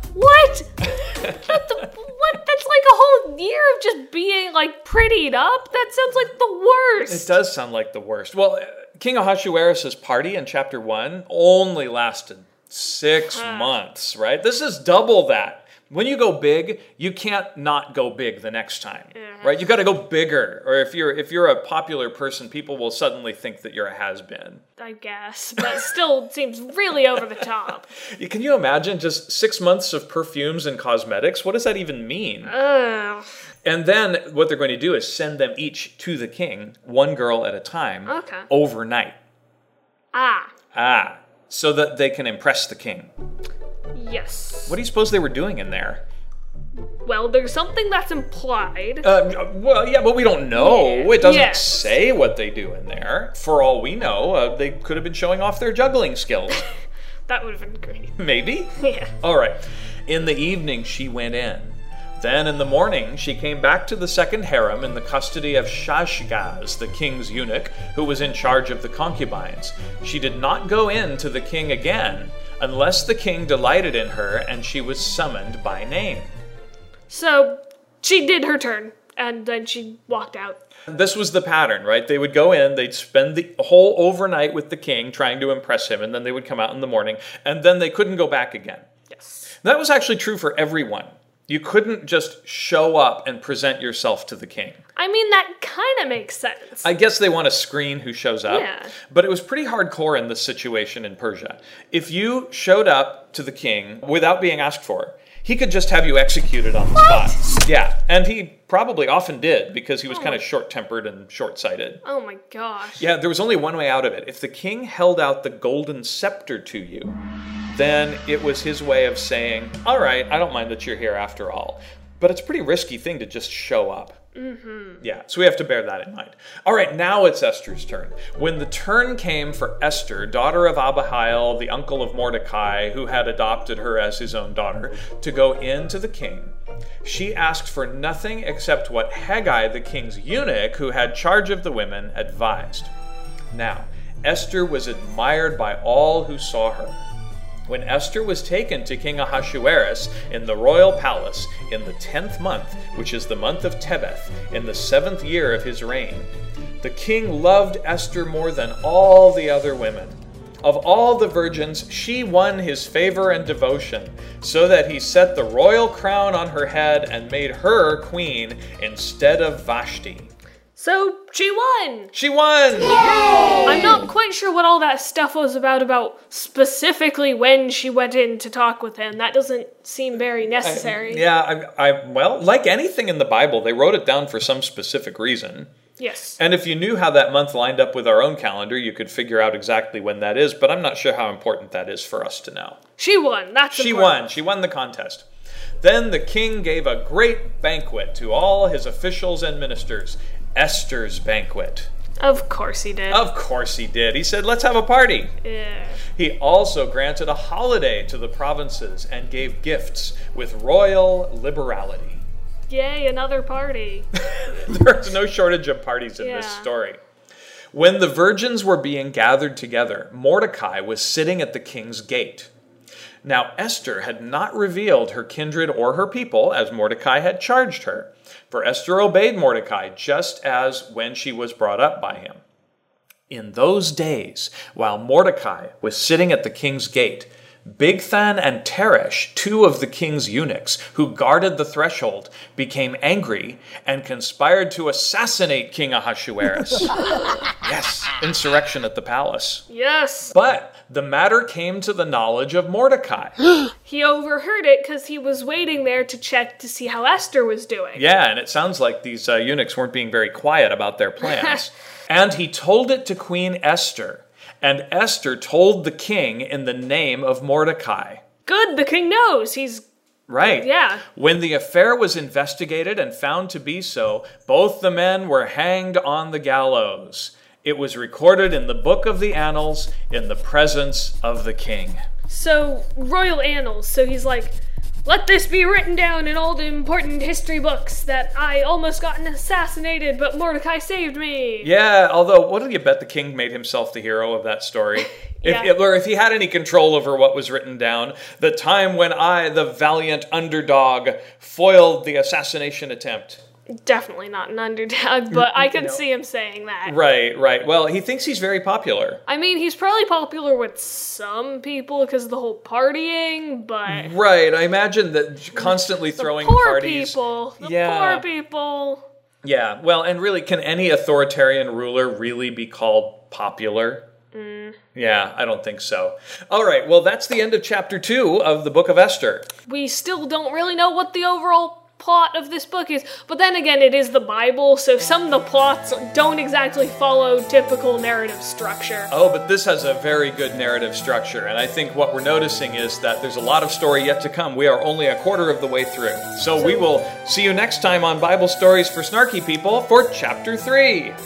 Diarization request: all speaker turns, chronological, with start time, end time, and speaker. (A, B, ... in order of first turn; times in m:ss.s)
0:00.1-0:07.3 A
0:01.2-0:01.5 B
0:07.1-0:24.6 B
0:13.3-0:13.8 A
0:19.1-0:19.6 A
0:24.8-0:27.9 A
0:28.1-0:32.5 B
0:32.4-0:33.3 A
0:33.6-0:39.2 B
0:38.1-0:38.5 A
0:40.1-0:40.5 A
0:40.7-0:43.1 B
0:43.9-0:44.8 A
0:44.7-0:46.0 B
0:47.0-0:49.1 A
0:49.0-0:56.6 B
0:50.5-0:52.0 A
0:57.3-0:58.1 A
0:58.2-0:58.7 B
0:58.7-0:59.1 A
0:59.2-1:16.3 B
1:17.1-1:20.6 A
1:20.9-1:28.9 B
1:29.1-1:29.5 A
1:29.6-1:34.8 B
1:35.0-1:36.9 A
1:36.8-1:52.0 B
1:38.5-1:38.9 A
1:46.9-1:47.6 A
1:50.1-1:50.4 A
1:52.0-1:53.1 A
1:53.0-1:57.2 B
1:57.7-2:04.2 B
2:04.3-2:05.0 A
2:05.0-2:22.9 B
2:23.5-2:27.0 B
2:27.7-2:36.3 B
2:36.8-2:50.3 B
2:50.8-2:52.1 A
2:52.1-2:54.1 B
2:52.9-3:01.2 A
3:00.6-3:05.7 B
3:06.0-3:06.4 A
3:06.4-3:12.8 B
3:13.0-3:14.2 A
3:13.7-3:15.2 B
3:15.8-3:21.9 B
3:22.2-3:23.2 A
3:23.1-3:25.3 B
3:25.4-3:26.0 A
3:26.1-3:32.2 B
3:32.7-3:34.1 A
3:34.2-3:37.0 B
3:36.2-3:36.7 A
3:37.7-3:42.5 B
3:43.2-3:52.4 B
3:53.3-4:07.0 B
4:07.6-4:09.6 B
4:09.7-4:10.3 A
4:10.3-4:13.4 B
4:13.8-4:18.0 A
4:17.9-4:28.2 B
4:21.2-4:21.6 A
4:28.4-4:29.8 A
4:30.3-4:42.0 B
4:30.4-4:31.0 A
4:42.3-4:51.7 A
4:51.6-5:03.4 B
4:55.4-4:55.7 A
5:03.7-5:07.0 A
5:05.3-5:06.0 B
5:06.8-5:09.2 B
5:09.3-5:14.1 A
5:13.8-5:18.2 B
5:15.6-5:19.0 A
5:19.4-5:24.0 B
5:24.3-5:24.8 A
5:24.9-5:29.5 B
5:29.7-5:39.1 A
5:39.1-5:51.2 B
5:46.6-5:46.8 A